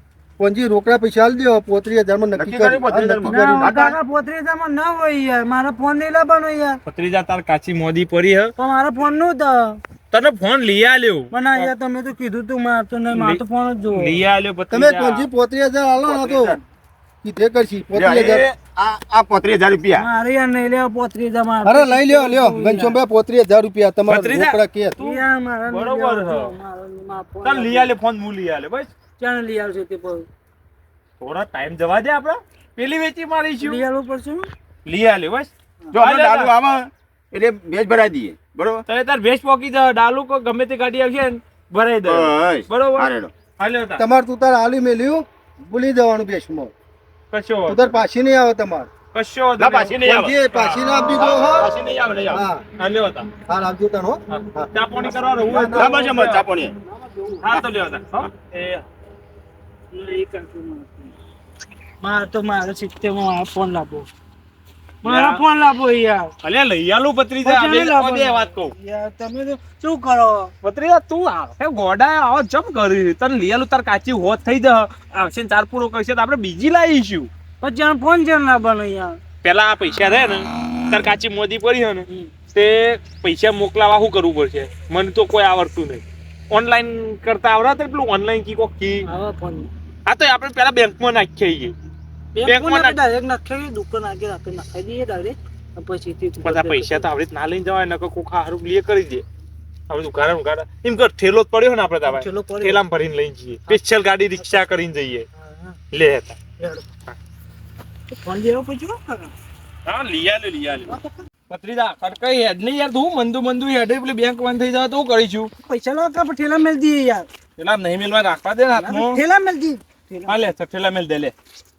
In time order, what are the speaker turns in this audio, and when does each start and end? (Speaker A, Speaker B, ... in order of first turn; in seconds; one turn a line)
Speaker A: 0.4-3.9
Speaker B: 2.4-3.9
Speaker C: 3.2-6.8
Speaker D: 6.8-8.5
Speaker C: 8.6-9.8
Speaker D: 10.1-11.7
Speaker C: 11.3-14.2
Speaker D: 13.1-13.4
Speaker D: 13.9-15.2
Speaker A: 14.7-16.6
Speaker B: 16.0-16.6
Speaker A: 17.2-18.4
Speaker B: 17.9-20.1
Speaker C: 19.9-23.0
Speaker A: 21.6-25.0
Speaker D: 24.1-26.5
Speaker C: 25.0-27.9
Speaker D: 27.4-28.9
Speaker C: 29.2-30.3
Speaker D: 31.2-33.8
Speaker C: 33.6-34.5
Speaker D: 34.9-36.5
Speaker B: 35.9-38.8
Speaker D: 38.9-44.0
Speaker B: 42.0-43.3
Speaker A: 44.0-46.7
Speaker D: 47.3-47.8
Speaker A: 47.7-48.9
Speaker D: 49.1-51.7
Speaker B: 49.6-50.3
Speaker A: 50.0-51.7
Speaker B: 51.1-52.4
Speaker A: 52.3-52.6
Speaker D: 52.8-53.3
Speaker A: 53.5-56.0
Speaker D: 54.3-56.5
Speaker B: 55.7-56.7
Speaker C: 56.9-57.5
Speaker D: 57.4-58.8
Speaker C: 59.9-61.1
Speaker C: 62.0-64.1
Speaker D: 65.0-65.4
Speaker C: 65.0-66.3
Speaker D: 66.4-68.7
Speaker C: 67.4-70.5
Speaker D: 70.6-77.3
Speaker C: 77.6-79.2
Speaker D: 79.4-89.0
Speaker C: 89.0-89.7
Speaker D: 90.0-91.7
Speaker C: 92.3-97.0
Speaker D: 92.4-93.0
Speaker D: 96.4-99.2
Speaker D: 99.9-105.3
Speaker C: 102.0-102.8
Speaker C: 104.4-104.7
Speaker C: 105.4-105.8
Speaker D: 105.9-106.4
Speaker C: 106.6-106.8
Speaker C: 108.1-109.3
Speaker D: 109.8-110.9
Speaker C: 110.9-111.2
Speaker D: 111.5-115.5
Speaker C: 115.6-117.3
Speaker D: 117.6-119.2
Speaker C: 118.7-120.5
Speaker D: 120.3-121.3